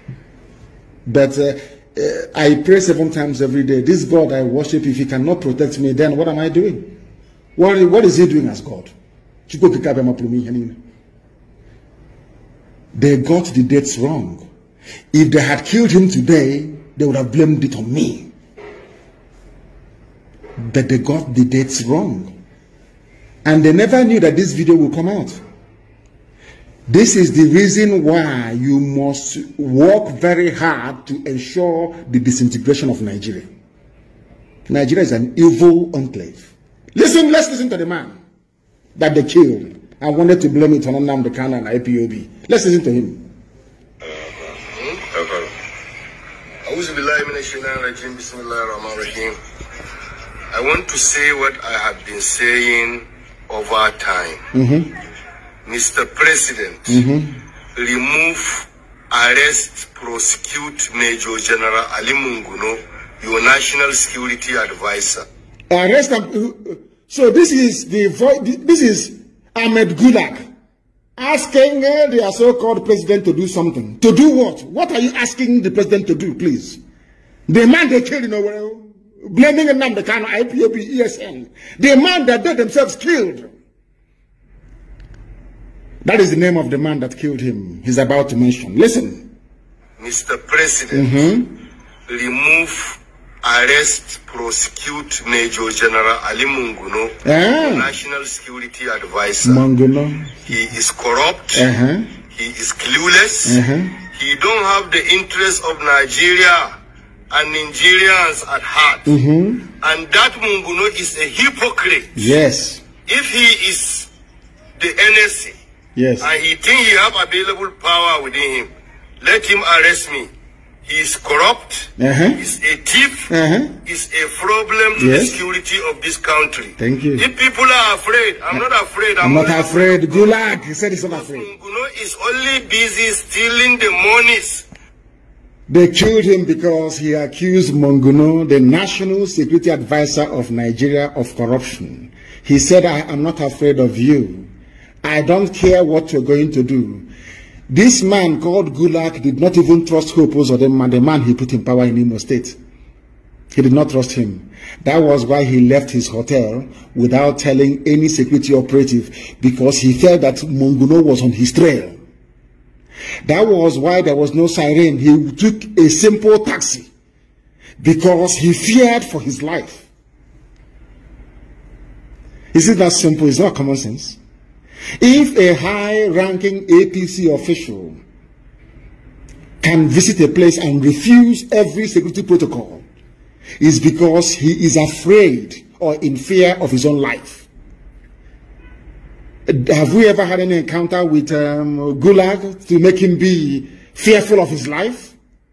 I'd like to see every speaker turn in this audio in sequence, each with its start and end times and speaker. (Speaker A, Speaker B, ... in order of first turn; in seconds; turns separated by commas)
Speaker A: 1.1-6.9, Speaker A: 7.5-8.9, Speaker A: 9.5-10.8, Speaker A: 12.9-14.4, Speaker A: 15.1-18.3, Speaker A: 20.6-22.3, Speaker A: 23.4-25.4, Speaker A: 26.9-33.5, Speaker A: 34.7-38.2, Speaker A: 39.0-43.2, Speaker B: 44.1-45.5, Speaker B: 46.6-49.4, Speaker B: 50.5-54.4, Speaker A: 54.5-54.9, Speaker B: 55.6-57.0, Speaker A: 56.9-57.4, Speaker B: 57.8-65.2, Speaker A: 65.7-70.4, Speaker A: 71.2-76.8, Speaker A: 77.5-83.5, Speaker A: 86.0-89.3, Speaker B: 90.0-91.3, Speaker A: 90.9-91.5, Speaker B: 92.1-99.6, Speaker A: 97.2-97.9, Speaker A: 99.4-100.3, Speaker B: 100.5-101.7, Speaker A: 101.5-102.1, Speaker B: 102.3-103.6, Speaker A: 103.4-104.0, Speaker B: 104.1-106.7, Speaker B: 107.3-109.1, Speaker A: 109.0-109.7, Speaker B: 109.8-112.3, Speaker A: 112.2-112.8, Speaker B: 113.0-114.1, Speaker B: 114.8-115.5, Speaker A: 116.0-116.3, Speaker B: 116.2-118.7, Speaker B: 119.2-120.3, Speaker B: 120.8-123.3, Speaker A: 122.0-122.4, Speaker A: 123.3-123.8, Speaker B: 123.8-130.4, Speaker A: 125.0-125.4, Speaker A: 126.8-127.3, Speaker A: 129.2-131.5, Speaker B: 131.0-134.7, Speaker A: 135.7-144.5, Speaker A: 145.0-147.1, Speaker A: 147.7-152.6, Speaker A: 153.5-162.0, Speaker A: 163.2-166.9, Speaker A: 167.8-169.9, Speaker A: 172.5-174.2, Speaker A: 175.0-178.0, Speaker A: 179.6-182.8, Speaker A: 183.6-187.5, Speaker A: 189.5-195.2